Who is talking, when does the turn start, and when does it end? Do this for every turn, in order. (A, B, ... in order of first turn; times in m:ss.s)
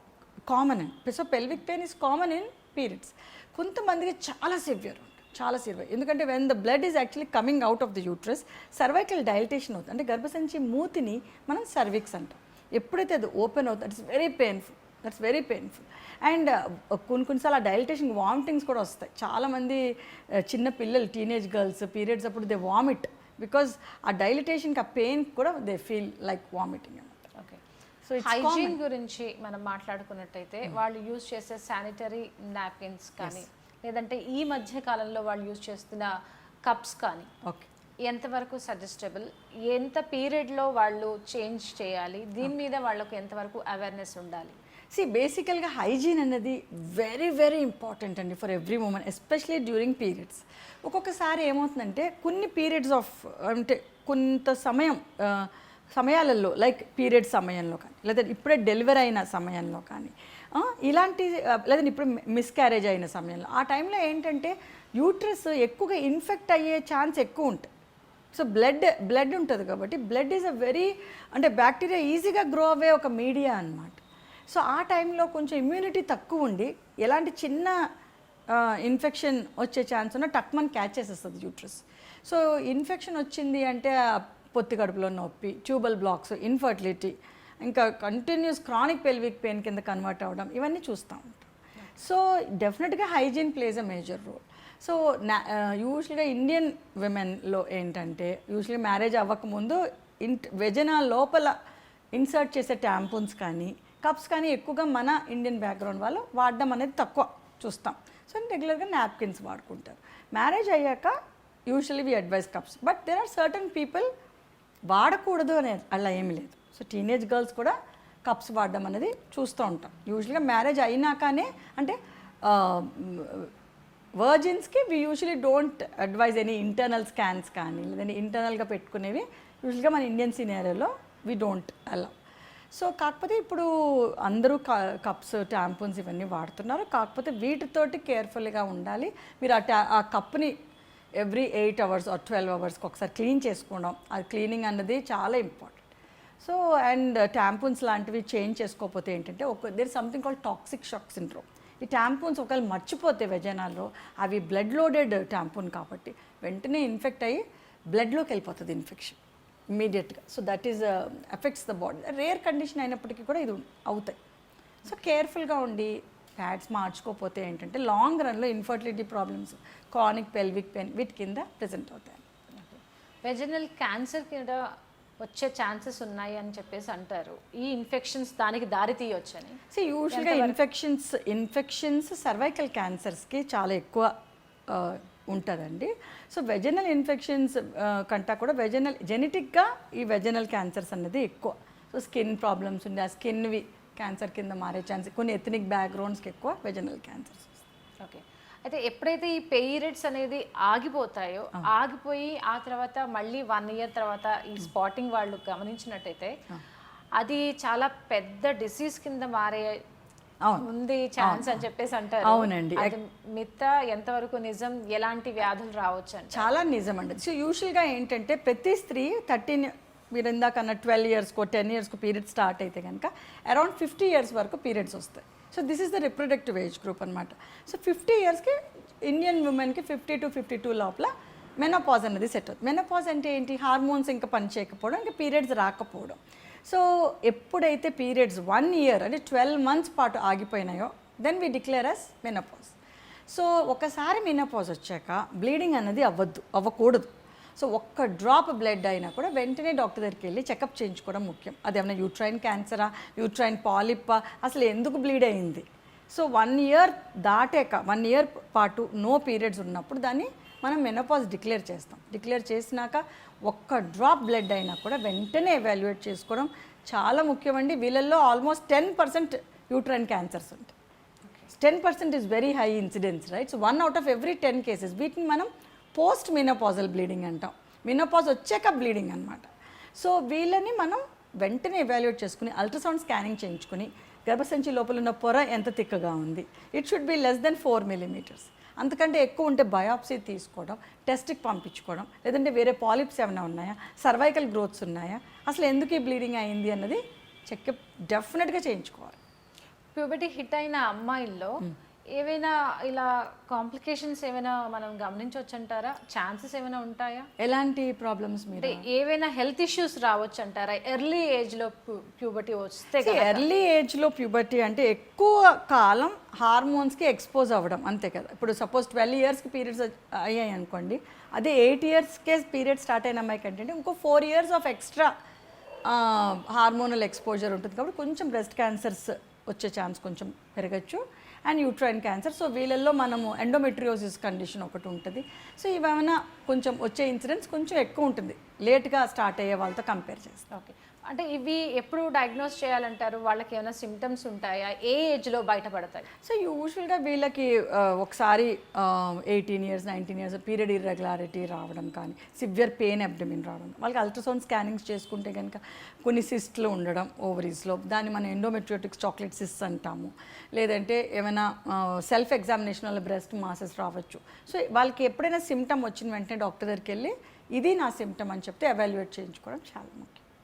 0:00.5-0:27.3 A
0:27.4-0:27.6 B
0:28.0-0:28.8 A
0:28.2-0:36.1 B
0:36.6-0:37.3 B
0:38.0-0:44.6 B
0:44.9-1:07.7 A
1:08.3-1:17.8 A
1:18.5-1:41.6 A
1:42.1-1:51.1 A
1:51.7-1:54.1 A
1:54.9-2:03.5 A
2:04.2-2:12.1 A
2:12.7-2:20.6 A
2:21.2-2:25.9 A
2:26.4-2:39.2 A
2:39.7-2:44.2 A
2:44.8-2:52.2 A
2:52.5-2:54.6 B
2:55.2-3:00.6 B
2:59.7-3:04.1 A
3:04.7-3:17.6 A
3:18.0-3:26.4 B
3:27.2-3:29.8 B
3:30.4-3:30.7 A
3:30.6-3:36.5 B
3:31.2-3:31.6 A
3:32.2-3:33.0 A
3:36.3-4:02.7 A
4:03.3-4:30.7 A
4:31.5-4:59.2 A
4:59.9-5:07.3 B
5:07.4-5:08.8 A
5:08.6-5:13.4 B
5:13.0-5:25.1 A
5:25.8-5:40.4 A
5:40.5-5:46.1 B
5:46.2-6:10.2 A